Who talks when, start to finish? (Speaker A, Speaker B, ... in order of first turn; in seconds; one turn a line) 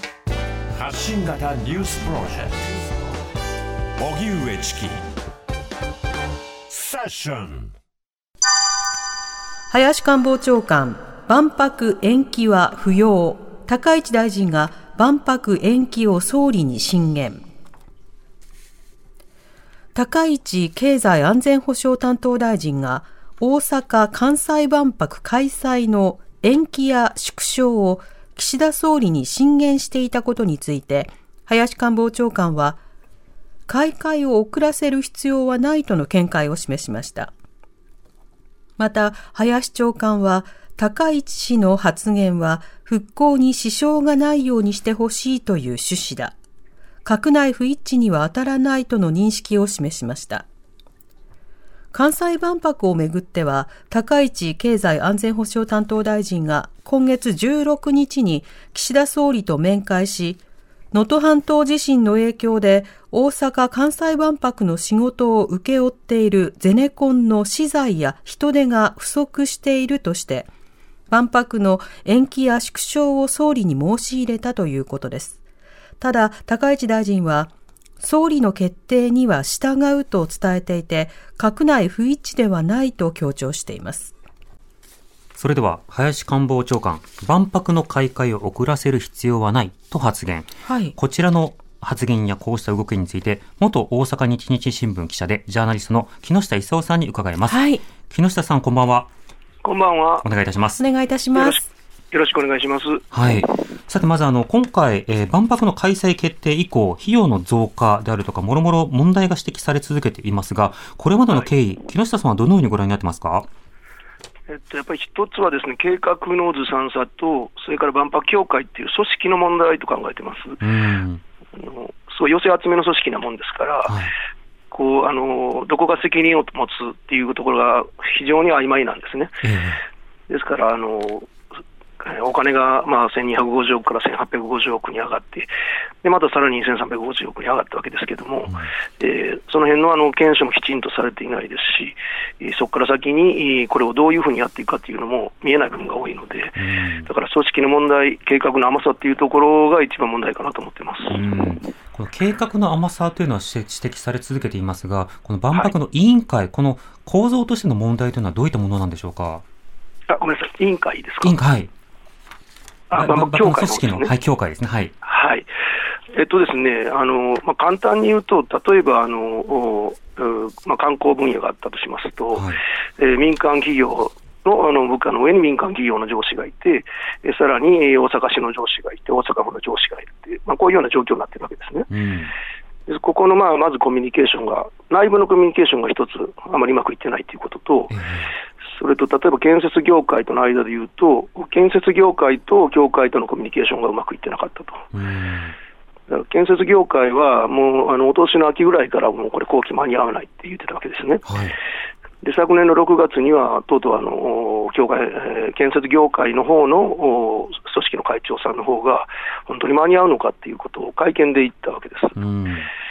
Speaker A: 0.8-2.8
Speaker A: 4.0-5.0
Speaker A: 6.7-7.7
Speaker B: 9.7-17.4
Speaker B: 19.9-32.8
Speaker B: 33.7-37.3
Speaker B: 38.8-46.4
Speaker B: 47.0-50.5
Speaker B: 51.9-60.4
Speaker B: 60.9-70.5
Speaker B: 71.1-75.4
Speaker B: 76.0-84.1
Speaker C: 85.4-99.1
Speaker B: 90.7-90.9
Speaker B: 97.5-97.8
Speaker D: 99.6-100.3
Speaker C: 100.2-100.8
Speaker B: 100.8-101.6
Speaker D: 101.3-103.0
Speaker C: 103.1-113.5
Speaker D: 114.5-120.6
Speaker C: 120.6-121.2
Speaker D: 121.6-124.0
Speaker C: 123.8-124.1
Speaker D: 124.7-129.4
Speaker C: 129.4-129.8
Speaker D: 130.3-131.3
Speaker D: 132.0-135.5
Speaker D: 136.0-151.2
Speaker C: 138.5-138.7
Speaker C: 146.6-147.1
Speaker C: 151.1-159.4
Speaker D: 160.1-161.4
Speaker C: 161.2-161.7
Speaker D: 162.9-164.2
Speaker C: 162.9-164.9
Speaker D: 165.0-165.5
Speaker D: 166.1-172.5
Speaker C: 172.3-172.6
Speaker D: 173.0-181.9
Speaker C: 181.9-182.3
Speaker D: 182.9-187.9
Speaker C: 187.9-188.4
Speaker D: 188.7-194.8
Speaker C: 194.9-195.6
Speaker D: 196.1-201.3
Speaker C: 201.3-201.6
Speaker D: 202.2-212.2
Speaker C: 212.2-212.7